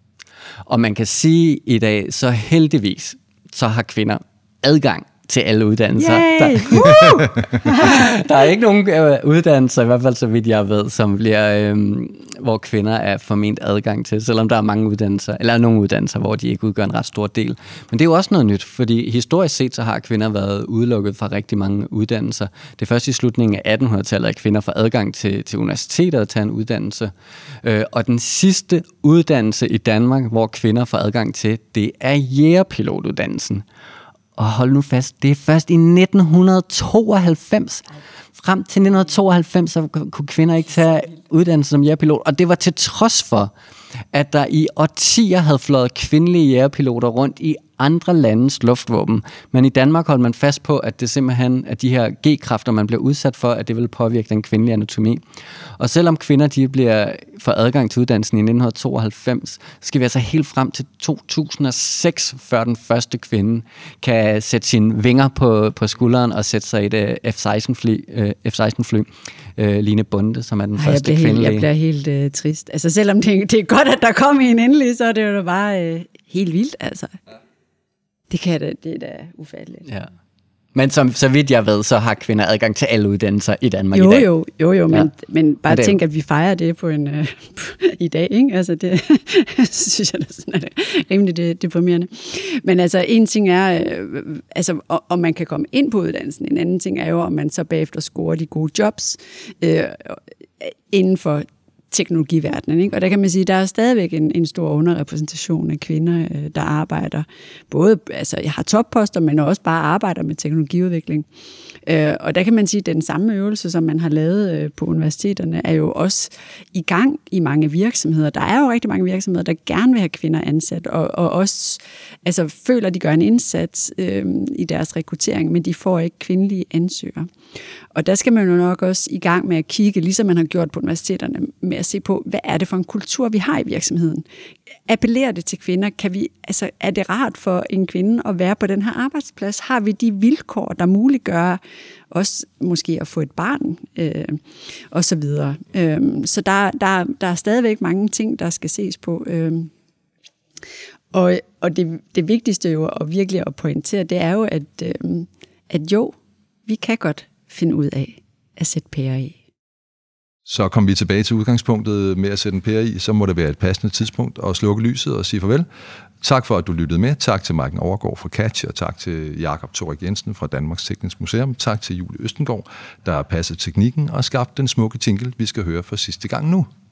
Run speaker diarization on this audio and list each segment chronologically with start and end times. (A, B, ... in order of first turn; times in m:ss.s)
0:00.6-0:33.6 A
0:06.0-0:08.2 B
0:34.4-0:43.5 A
0:44.1-0:55.2 A
0:55.8-1:11.6 A
1:10.8-1:17.2 B
1:18.3-1:19.8 B
1:20.7-1:24.3 A
1:23.9-1:51.3 B
1:25.7-1:26.0 A
1:51.8-2:07.3 B
2:07.9-2:14.2 B
2:14.9-2:21.6 B
2:22.1-2:29.7 B
2:31.1-2:36.2 B
2:36.7-2:39.4 B
2:40.4-2:45.7 C
2:46.2-2:56.7 C